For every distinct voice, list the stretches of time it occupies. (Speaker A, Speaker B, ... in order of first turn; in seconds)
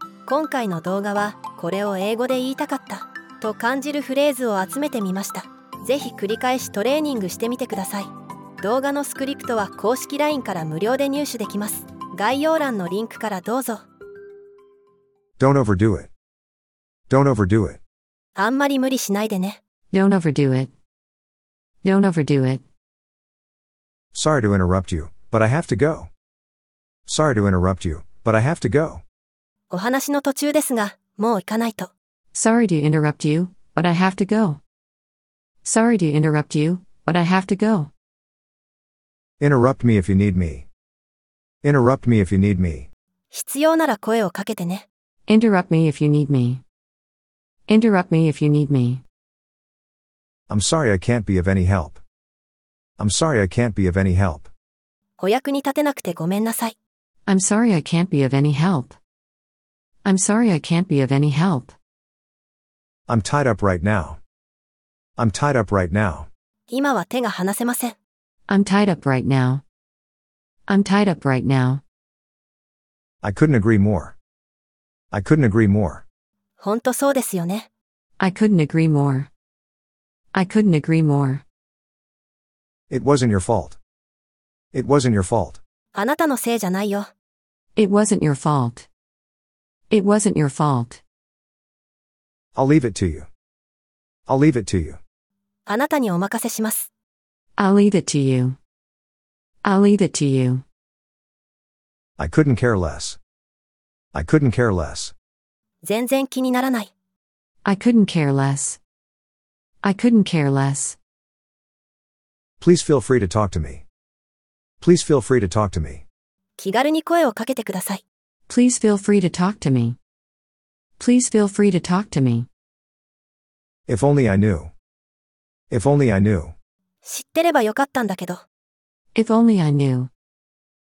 Speaker A: 0.3-13.8, 18.4-19.6, 29.7-31.9, 43.3-44.8, 55.2-56.7, 66.7-68.0, 76.6-77.7, 85.9-87.1, 95.7-96.9, 105.8-106.9, 116.6-118.0, 127.0-128.4
Speaker B: 15.4-16.1, 17.1-17.8, 24.1-26.1, 27.1-29.0, 39.4-40.7, 41.6-42.9, 50.5-52.0, 53.0-54.5, 63.1-64.2, 65.2-66.3, 73.2-74.1, 75.1-76.0, 82.9-83.8, 84.7-85.6, 92.5-93.3, 94.3-95.0, 102.2-103.2, 104.1-105.1, 112.6-113.8, 114.8-116.0, 123.9-124.7, 125.7-126.5
Speaker C: 19.9-20.7, 21.8-22.6, 32.3-34.6, 35.6-37.9, 45.3-46.6, 47.7-49.0, 57.2-59.0, 60.0-61.8, 68.5-69.6, 70.7-71.8, 78.2-79.3, 80.3-81.4, 87.8-88.9, 89.9-91.0, 97.6-98.6, 99.6-100.6, 107.6-108.8, 109.8-111.0, 118.5-120.0, 121.0-122.5, 129.1-130.1